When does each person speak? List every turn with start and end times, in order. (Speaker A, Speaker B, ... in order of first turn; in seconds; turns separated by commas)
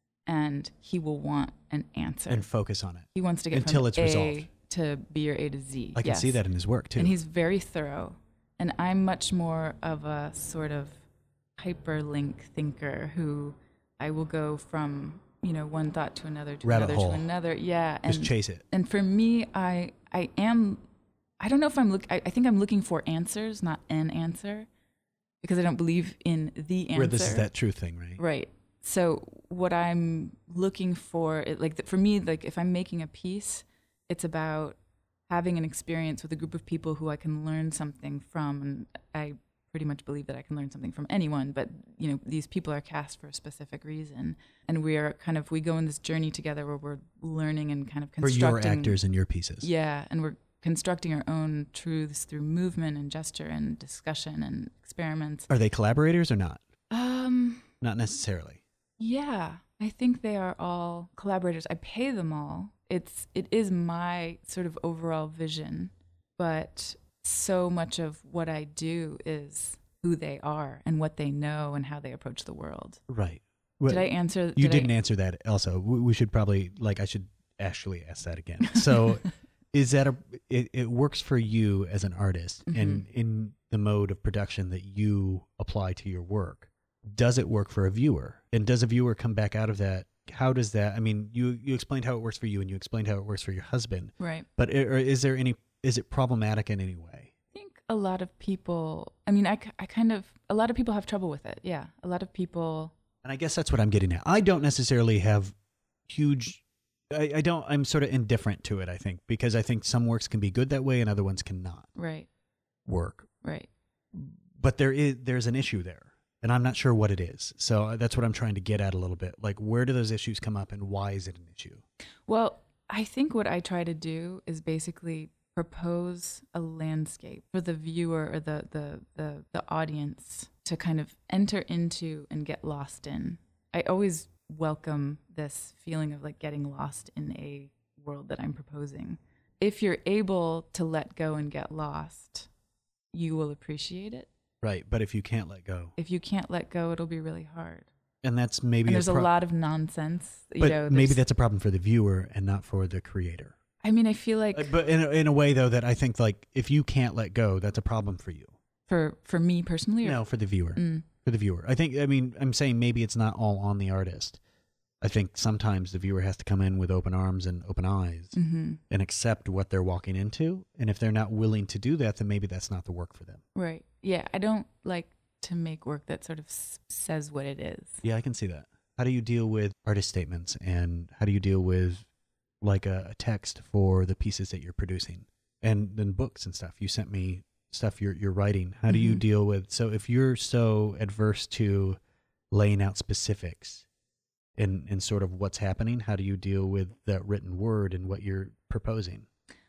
Speaker A: 0.2-2.5, Speaker B: 2.3-4.5, Speaker A: 3.1-6.4, Speaker B: 5.9-7.2, Speaker A: 7.0-11.0, Speaker A: 11.6-20.8, Speaker B: 16.6-17.3, Speaker B: 18.1-18.6, Speaker A: 21.4-24.7, Speaker A: 25.4-27.5, Speaker B: 26.9-28.2, Speaker A: 28.2-49.0, Speaker B: 48.2-49.7, Speaker A: 49.6-55.5, Speaker B: 55.5-56.6, Speaker A: 56.9-57.7, Speaker B: 57.8-58.6, Speaker A: 59.0-73.0, Speaker B: 73.1-97.3, Speaker A: 73.9-74.9, Speaker A: 82.7-83.0, Speaker A: 94.2-94.5, Speaker A: 97.5-102.9, Speaker B: 103.2-105.5, Speaker B: 106.1-111.9, Speaker A: 112.0-112.3, Speaker B: 112.8-113.3, Speaker A: 113.4-113.7, Speaker B: 114.1-121.8, Speaker A: 122.3-142.5, Speaker A: 143.1-144.3, Speaker B: 144.6-145.9, Speaker A: 146.0-147.9, Speaker B: 148.2-149.3, Speaker A: 148.8-151.2, Speaker B: 150.6-153.6, Speaker A: 153.8-154.7, Speaker B: 154.5-158.6, Speaker A: 158.9-160.2, Speaker B: 160.0-164.4, Speaker A: 160.7-161.1, Speaker B: 165.0-168.3, Speaker A: 168.3-168.8, Speaker B: 168.9-173.4, Speaker A: 173.5-178.0, Speaker B: 178.0-182.1, Speaker B: 182.6-192.0, Speaker A: 188.9-189.2, Speaker B: 192.5-193.8, Speaker B: 194.6-199.2